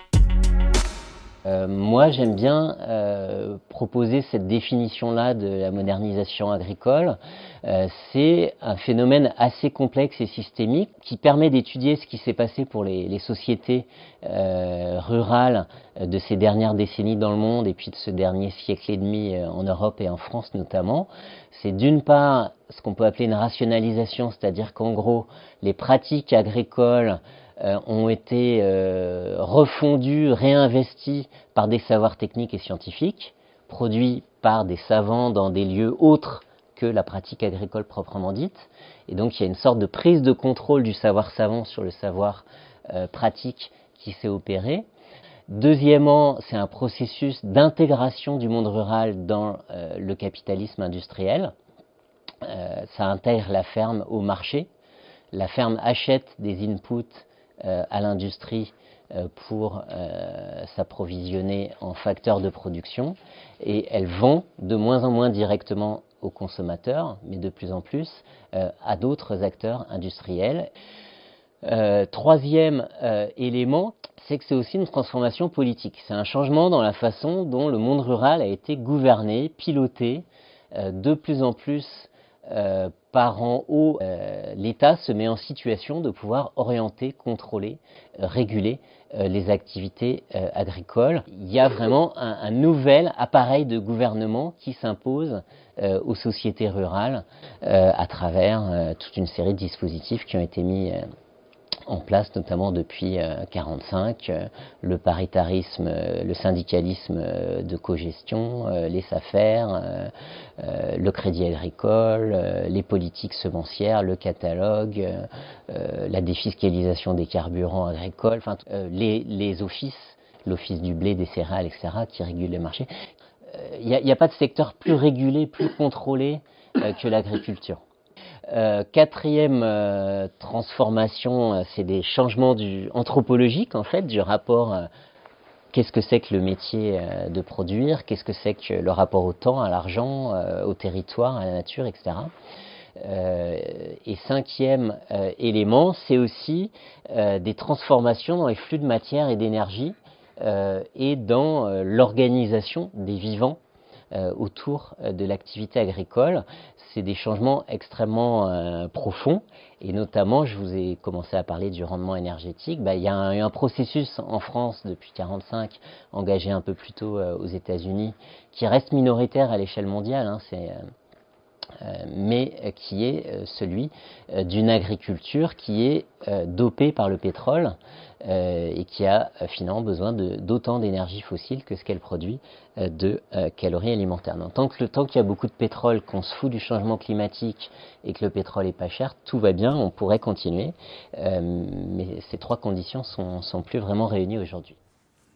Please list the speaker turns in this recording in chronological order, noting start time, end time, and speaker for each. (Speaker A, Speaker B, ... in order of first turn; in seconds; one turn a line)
Speaker A: 1.4-44.9
Speaker A: 45.5-51.5
Speaker A: 52.4-54.7
Speaker A: 55.3-70.7
Speaker A: 71.7-101.0
Speaker A: 101.9-122.9
Speaker A: 123.5-127.8
Speaker A: 128.5-134.9
Speaker A: 135.7-142.3
Speaker A: 143.0-153.6
Speaker A: 154.1-170.9
Speaker A: 171.8-194.8